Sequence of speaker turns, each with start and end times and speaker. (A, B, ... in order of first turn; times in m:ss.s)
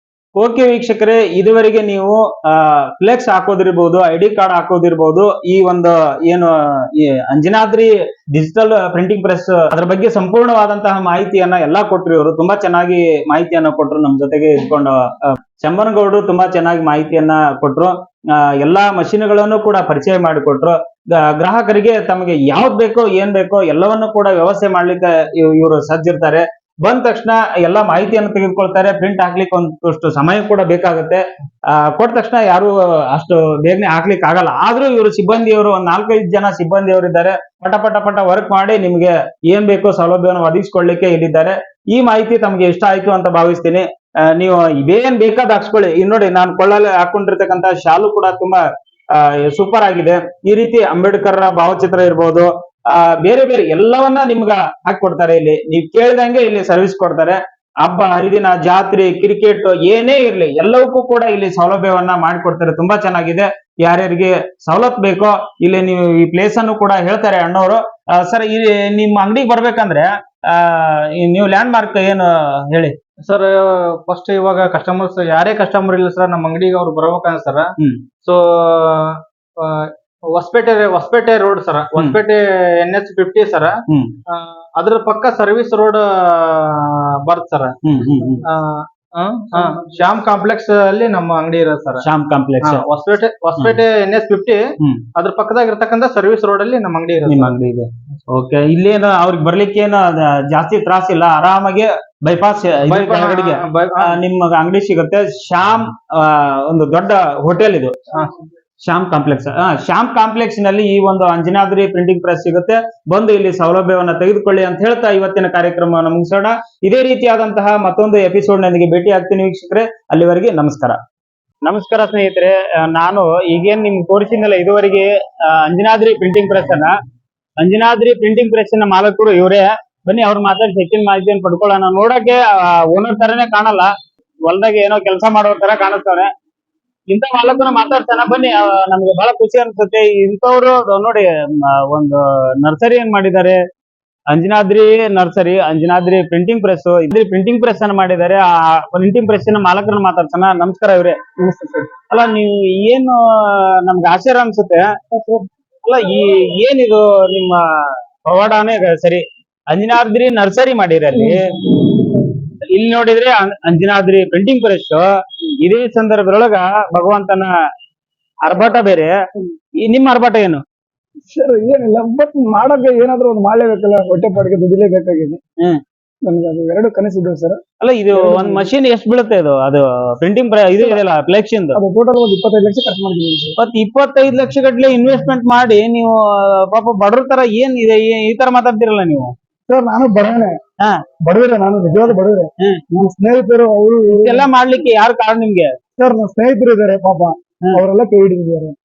0:00.4-0:48.6 A
0:49.2-1:12.9 A
1:13.2-1:17.7 B
1:18.2-1:23.8 B
1:24.3-1:27.7 B
1:27.8-1:28.4 A
1:28.4-1:32.0 B
1:32.0-1:32.8 A
1:32.6-1:34.6 B
1:35.2-1:37.6 B
1:37.3-1:48.0 A
1:42.9-1:44.1 B
1:48.8-2:01.0 A
2:01.6-2:06.9 A
2:07.6-2:13.9 A
2:14.5-2:16.3 A
2:17.1-2:23.6 A
2:24.3-2:31.2 A
2:31.4-2:31.9 C
2:32.1-2:34.9 A
2:35.1-2:35.4 C
2:35.8-2:37.6 A
2:38.2-2:47.5 A
2:41.1-2:41.6 C
2:48.4-2:49.1 A
2:49.8-2:50.6 A
2:51.3-2:55.4 C
2:56.2-2:57.6 C
2:57.8-3:01.8 A
2:58.1-2:58.7 C
3:01.7-3:03.6 C
3:03.6-3:09.3 A
3:09.7-3:10.6 C
3:11.2-3:14.5 C
3:14.1-3:15.7 A
3:16.0-3:18.8 C